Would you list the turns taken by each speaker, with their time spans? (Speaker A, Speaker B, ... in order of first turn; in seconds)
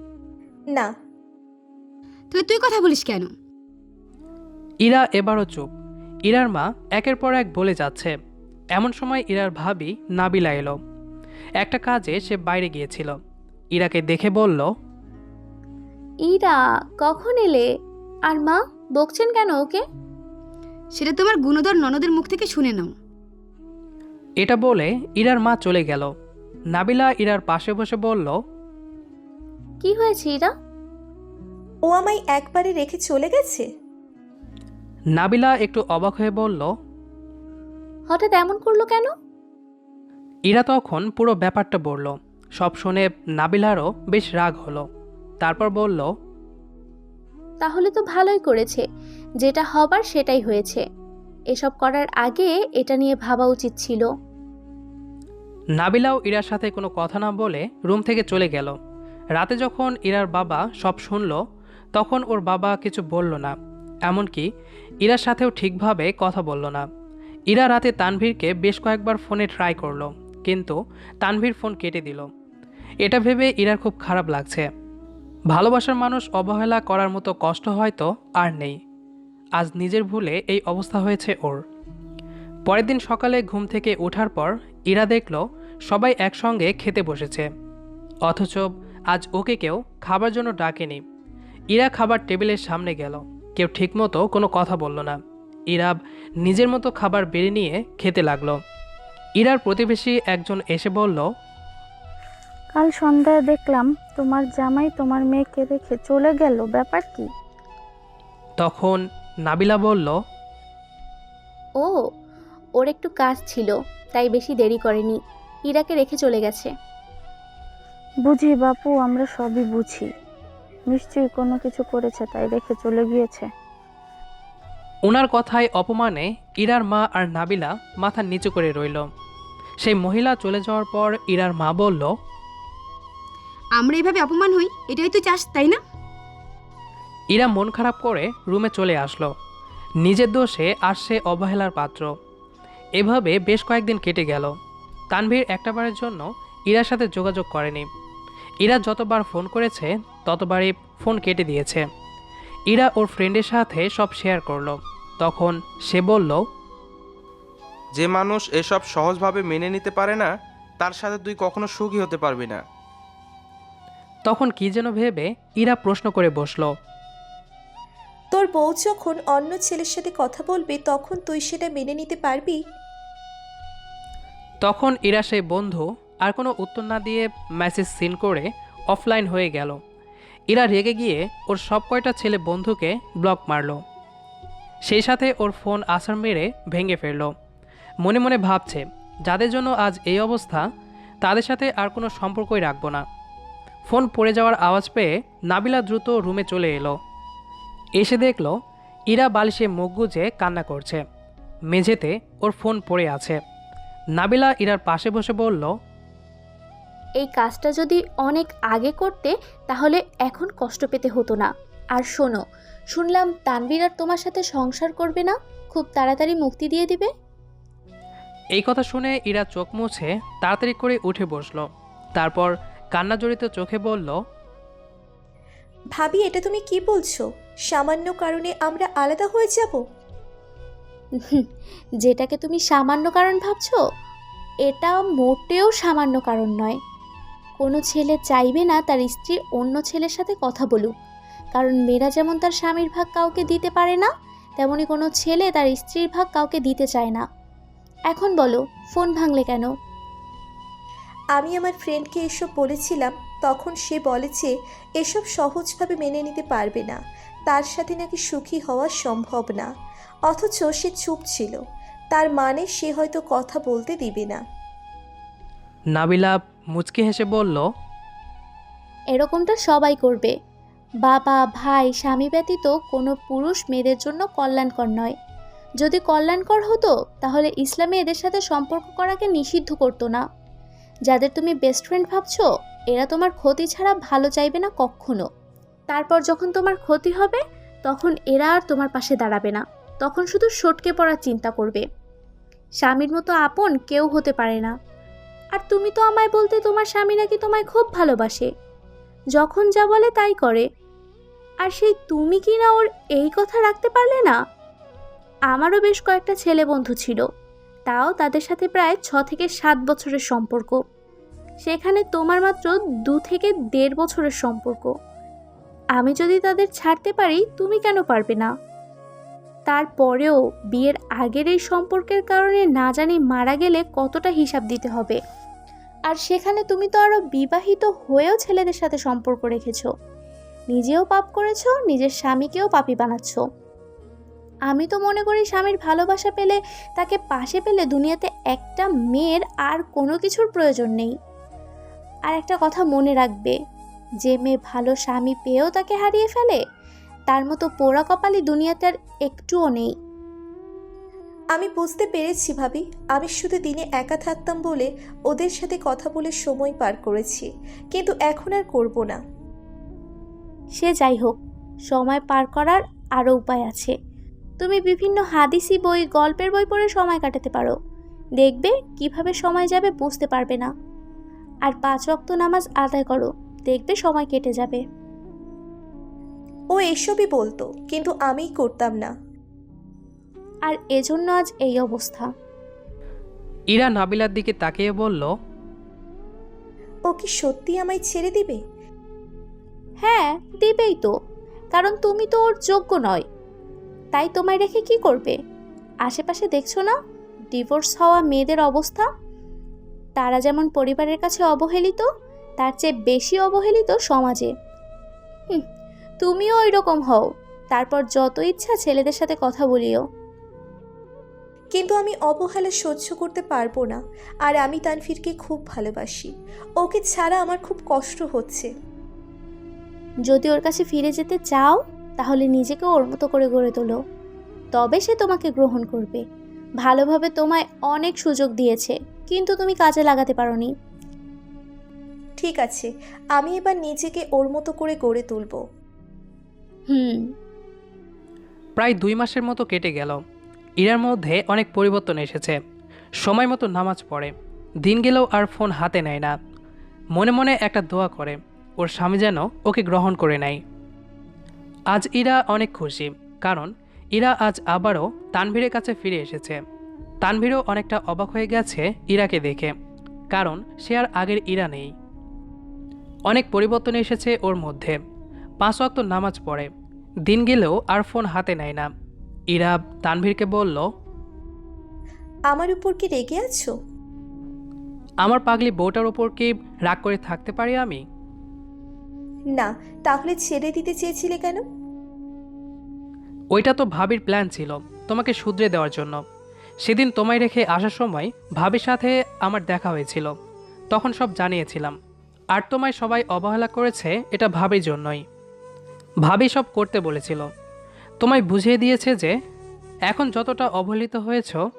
Speaker A: 2.3-3.3, 20.9-22.9, 133.8-135.8
Speaker B: 4.8-5.7, 6.2-8.1, 8.7-10.8, 11.6-13.2, 13.7-14.7, 24.4-26.1, 26.7-28.4, 35.1-36.7, 40.5-44.8, 45.4-46.1, 55.8-58.8, 59.4-61.4, 61.9-63.5, 64.1-64.5, 65.0-66.8, 67.5-72.3, 73.0-74.7, 75.5-78.8, 79.6-81.6, 82.7-87.5, 88.2-91.0, 91.7-95.2, 95.7-98.6, 99.4-101.2, 108.6-110.2, 125.0-129.1, 129.8-132.1, 137.3-139.3, 140.0-142.1, 143.0-144.5, 145.1-147.9, 148.6-151.8, 152.7-156.4, 164.3-166.7, 174.6-179.8, 180.5-183.8, 184.9-187.3, 188.0-190.6, 191.2-193.0, 193.8-197.0, 198.0-198.5, 199.1-201.0, 201.7-203.4, 204.2-205.7, 218.6-224.1, 265.9-267.6, 383.7-385.3, 438.8-440.2, 440.8-442.6, 443.2-446.3, 447.1-450.6, 451.9-456.6, 457.2-459.7, 460.3-461.9, 463.3-465.0, 465.6-466.7, 467.3-468.9, 469.5-470.8, 475.2-478.0, 483.5-486.2, 486.8-490.3, 490.9-491.9, 492.5-495.2, 496.2-497.5, 498.2-499.3, 500.1-501.6
Speaker C: 16.3-17.6, 18.3-19.8, 29.8-30.5, 38.1-39.1, 47.6-48.8, 49.4-50.8, 51.5-54.0, 112.8-116.7, 207.2-212.4, 212.9-217.1, 232.0-233.8, 234.7-236.8, 237.6-240.9, 241.5-247.2, 248.1-249.7, 269.1-270.3, 271.0-275.1, 275.8-280.2, 281.1-285.2, 285.9-291.8, 292.8-294.7, 295.6-298.5, 299.3-300.6, 301.6-304.3, 305.5-307.2, 307.9-310.8, 311.6-314.9, 316.0-318.5, 319.7-325.2, 326.1-329.9, 330.7-333.4, 334.7-341.1, 342.3-343.5, 344.2-346.6, 347.3-349.9, 360.8-361.4, 361.9-363.9, 364.6-367.7, 368.4-370.7, 371.6-374.8, 380.7-382.2, 390.0-391.1, 391.7-393.2, 394.1-395.3, 396.1-396.9, 397.5-399.1, 400.2-402.0, 402.6-404.5, 406.2-410.0, 420.3-423.9, 424.7-426.2, 426.8-430.7, 436.9-437.2
Speaker D: 31.8-33.7, 168.3-172.6, 225.9-229.8, 251.3-259.7, 260.3-261.6, 262.1-264.4, 351.5-359.2, 376.7-379.1, 387.1-388.6, 411.7-418.7, 432.4-435.6, 472.5-473.7, 479.5-481.6
Speaker E: 102.7-107.3, 118.2-120.1, 120.9-123.5
Speaker F: 157.9-162.6